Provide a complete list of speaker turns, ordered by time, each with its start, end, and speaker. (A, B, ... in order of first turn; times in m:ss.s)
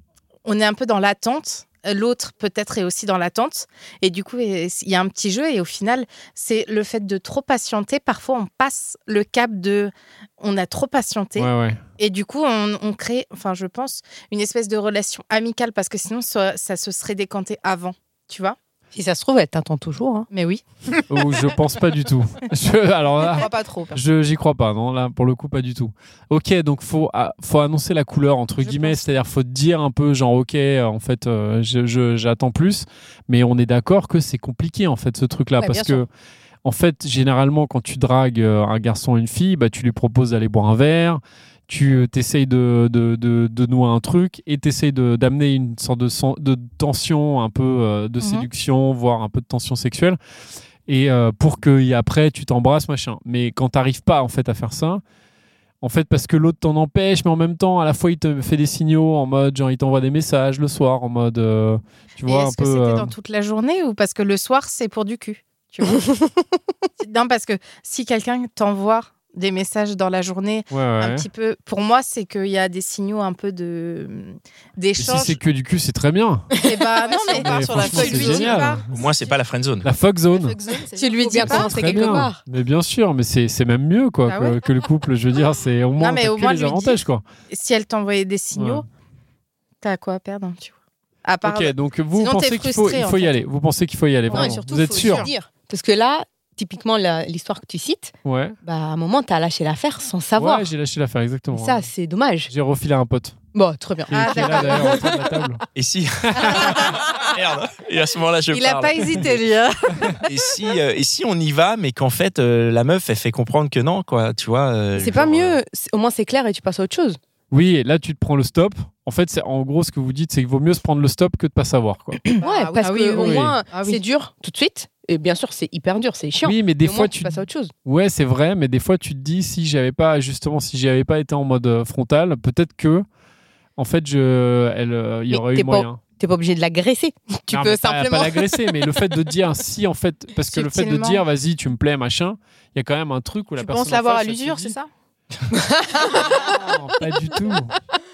0:00.5-0:18.6 A
0:11.4-0:11.8 B
0:18.9-0:20.3 C
0:20.3-0:20.6 A
0:21.1-0:36.1 B
0:28.6-0:29.1 A
0:35.6-0:36.0 C
0:36.6-0:50.2 B
0:48.2-0:48.5 A
0:50.9-0:55.0 B
0:55.8-1:03.1 B
1:02.2-1:06.1 A
1:07.0-1:15.4 A
1:10.7-1:11.3 B
1:15.0-1:16.5 B
1:16.5-1:18.8 A
1:17.3-1:18.8 B
1:18.8-1:19.9 D
1:19.8-1:20.6 B
1:20.3-1:21.4 E
1:21.0-1:21.9 A
1:21.2-1:22.4 C
1:21.4-1:27.2 B
1:24.3-1:24.6 A
1:26.0-1:28.8 A
1:28.5-1:28.8 B
1:29.8-1:30.7 A
1:31.2-1:33.4 A
1:31.4-1:35.3 B
1:34.3-1:35.3 A
1:34.3-1:40.7 C
1:38.3-1:38.6 B
1:40.4-1:41.9 B
1:41.5-1:42.5 C
1:42.5-1:43.4 B
1:43.5-1:44.8 C
1:44.1-1:45.6 B
1:44.1-1:45.2 A
1:45.7-1:49.4 D
1:46.3-1:46.6 B
1:46.6-1:46.9 A
1:48.5-1:50.3 A
1:50.2-1:55.6 D
1:55.0-1:57.2 C
1:57.5-2:02.3 B
2:02.3-2:04.0 A
2:02.4-2:07.7 C
2:03.2-2:03.6 B
2:06.4-2:13.1 B
2:13.8-2:16.0 B
2:15.3-2:18.6 C
2:17.5-2:24.7 B
2:20.5-2:21.2 A
2:23.8-2:24.9 E
2:25.5-2:26.3 C
2:26.4-2:27.8 B